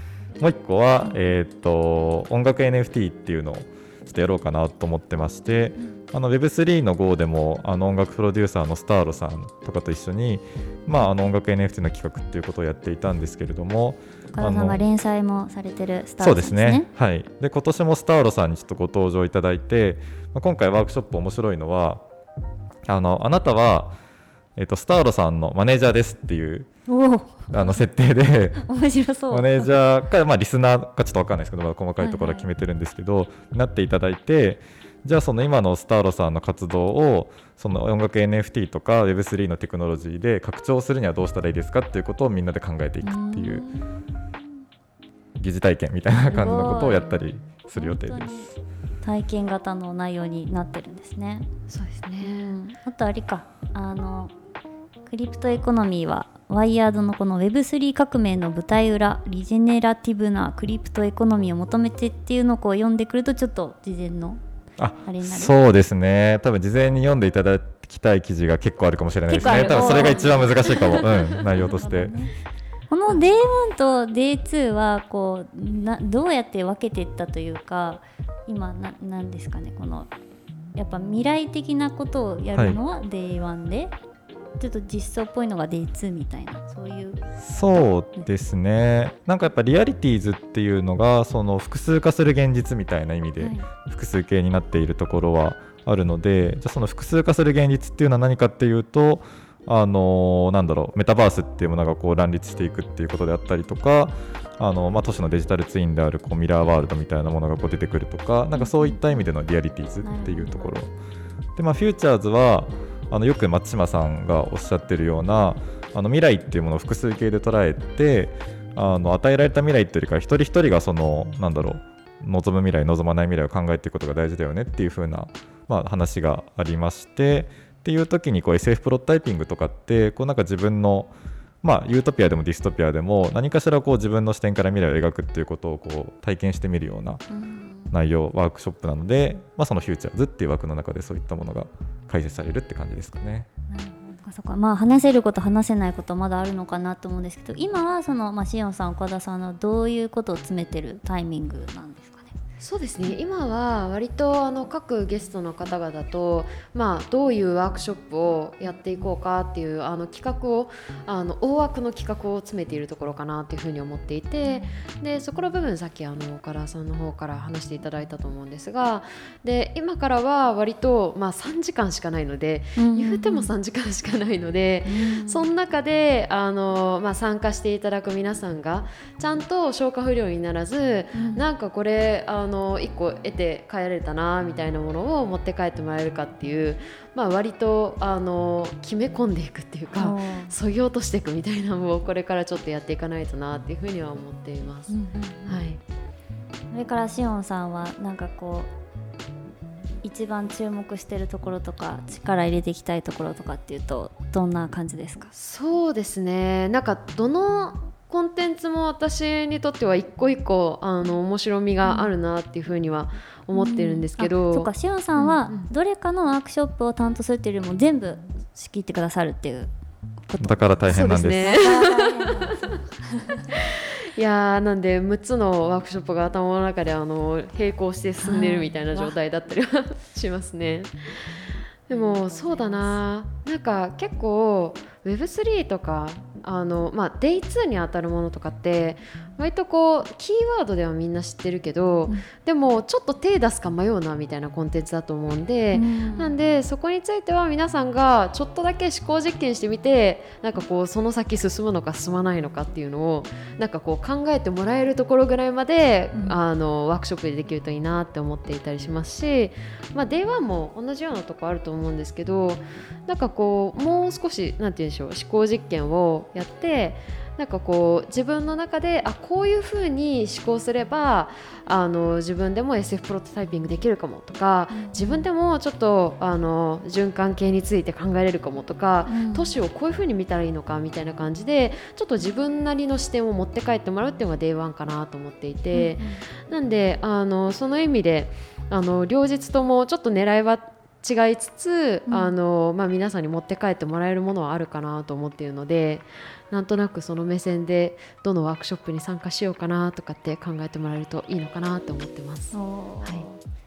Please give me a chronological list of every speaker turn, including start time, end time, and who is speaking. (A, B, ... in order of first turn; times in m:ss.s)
0:00.4-0:14.8 A
0:14.3-0:16.9 B
0:16.2-0:22.0 A
0:22.9-0:24.0 A
0:24.6-0:26.7 A
0:26.9-0:27.9 B
0:27.5-0:28.6 A
0:28.5-0:29.7 B
0:29.3-0:43.6 A
0:32.0-0:32.5 B
0:43.0-0:43.9 B
0:45.4-0:48.5 A
0:46.2-0:51.5 B
0:46.9-0:47.2 C
0:51.7-0:52.5 C
0:52.2-0:54.3 B
0:55.1-1:04.4 B
1:04.8-1:12.1 A
1:05.0-1:05.5 B
1:09.3-1:12.3 B
1:09.6-1:11.3 C
1:12.9-1:20.1 B
1:20.7-1:23.9 B
1:24.6-1:27.2 B
1:27.4-1:50.9 A
1:33.4-1:33.7 B
1:48.5-1:49.3 B
1:50.0-1:50.8 B
1:51.6-2:17.2 A
2:17.3-2:18.0 B
2:17.9-2:23.5 A
2:23.7-2:32.3 B
2:32.6-3:14.9 C
2:44.4-2:44.8 B
2:52.8-2:53.5 B
2:54.8-2:55.5 B
3:01.1-3:01.4 B
3:10.0-3:10.5 B
3:14.9-3:15.6 B
3:15.4-3:15.8 C
3:16.7-3:18.7 B
3:20.0-3:25.3 B
3:25.3-3:35.7 C
3:31.8-3:32.1 B
3:33.5-3:39.7 B
3:40.3-3:43.5 B
3:40.4-3:41.6 A
3:40.9-3:42.7 C
3:43.6-3:51.0 C
3:48.2-3:49.2 B
3:51.9-5:03.3 C
3:51.9-3:53.0 B
4:05.7-4:06.4 B
4:34.7-4:35.3 B
4:39.1-4:39.5 B
4:45.7-4:46.2 B
4:52.1-4:52.3 B
5:02.5-5:03.4 B